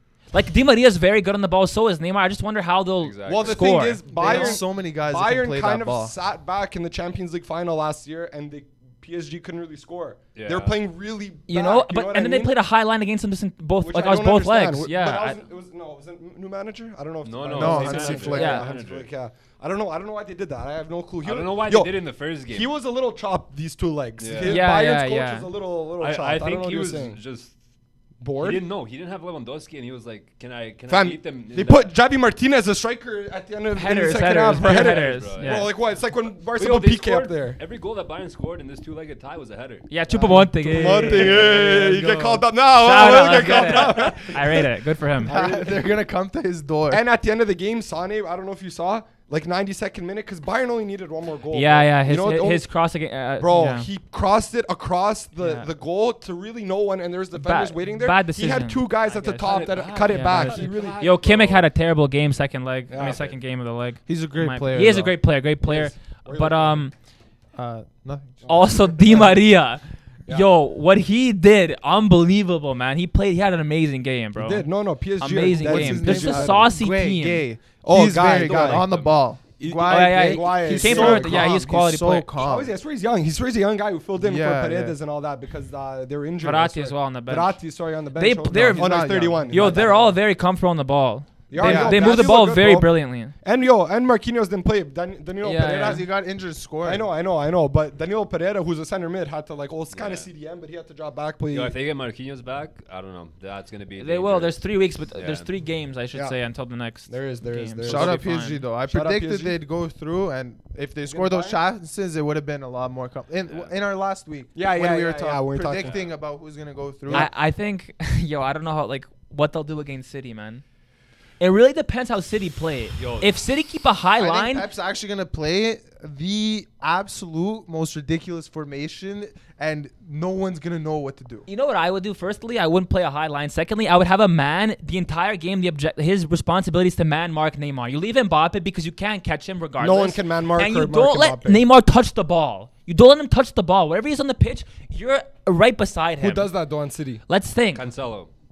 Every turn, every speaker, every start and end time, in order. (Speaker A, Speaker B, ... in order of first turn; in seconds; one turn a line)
Speaker A: 0.3-4.6
Speaker B: 3.0-3.7
Speaker C: 3.2-12.5
Speaker D: 4.1-6.1
Speaker B: 10.3-10.8
Speaker A: 11.5-15.4
Speaker C: 13.8-27.2
Speaker B: 17.2-19.1
Speaker D: 17.5-18.7
Speaker A: 18.4-18.7
Speaker B: 21.2-22.7
Speaker B: 24.2-24.7
Speaker A: 24.4-25.5
Speaker B: 26.0-27.6
Speaker C: 28.2-28.6
Speaker B: 28.4-31.9
Speaker C: 30.9-37.6
Speaker A: 33.7-35.7
Speaker B: 34.5-35.8
Speaker B: 36.5-39.9
Speaker A: 39.9-45.3
Speaker D: 40.1-42.1
Speaker C: 40.2-45.9
Speaker D: 45.2-47.0
Speaker C: 46.9-52.7
Speaker A: 51.5-53.9
Speaker C: 53.4-61.1
Speaker A: 55.4-55.7
Speaker A: 57.3-66.9
Speaker B: 59.5-61.7
Speaker C: 62.9-63.3
Speaker B: 63.0-63.3
Speaker D: 64.1-65.2
Speaker C: 65.6-66.9
Speaker D: 67.5-68.5
Speaker C: 68.4-69.4
Speaker A: 68.5-77.5
Speaker C: 74.3-76.7
Speaker D: 75.5-82.7
Speaker C: 77.8-79.0
Speaker B: 78.4-79.2
Speaker C: 79.6-81.7
Speaker A: 79.9-82.3
Speaker C: 82.4-90.2
Speaker D: 84.2-85.0
Speaker A: 86.4-87.6
Speaker A: 88.2-93.3
Speaker D: 88.5-89.9
Speaker C: 91.5-96.1
Speaker D: 91.6-92.2
Speaker A: 95.4-96.0
Speaker D: 95.7-97.1
Speaker C: 96.8-101.8
Speaker B: 99.9-100.3
Speaker B: 101.5-105.5
Speaker A: 104.0-108.6
Speaker C: 107.1-108.3
Speaker D: 107.8-117.3
Speaker C: 108.9-109.6
Speaker C: 111.0-111.6
Speaker B: 113.5-113.8
Speaker C: 114.5-116.0
Speaker B: 115.8-116.1
Speaker A: 117.1-120.6
Speaker A: 121.4-124.7
Speaker B: 123.0-123.4
Speaker D: 124.2-131.5
Speaker A: 131.5-146.5
Speaker C: 139.8-141.6
Speaker C: 146.2-147.2
Speaker A: 147.3-147.8
Speaker B: 147.7-148.3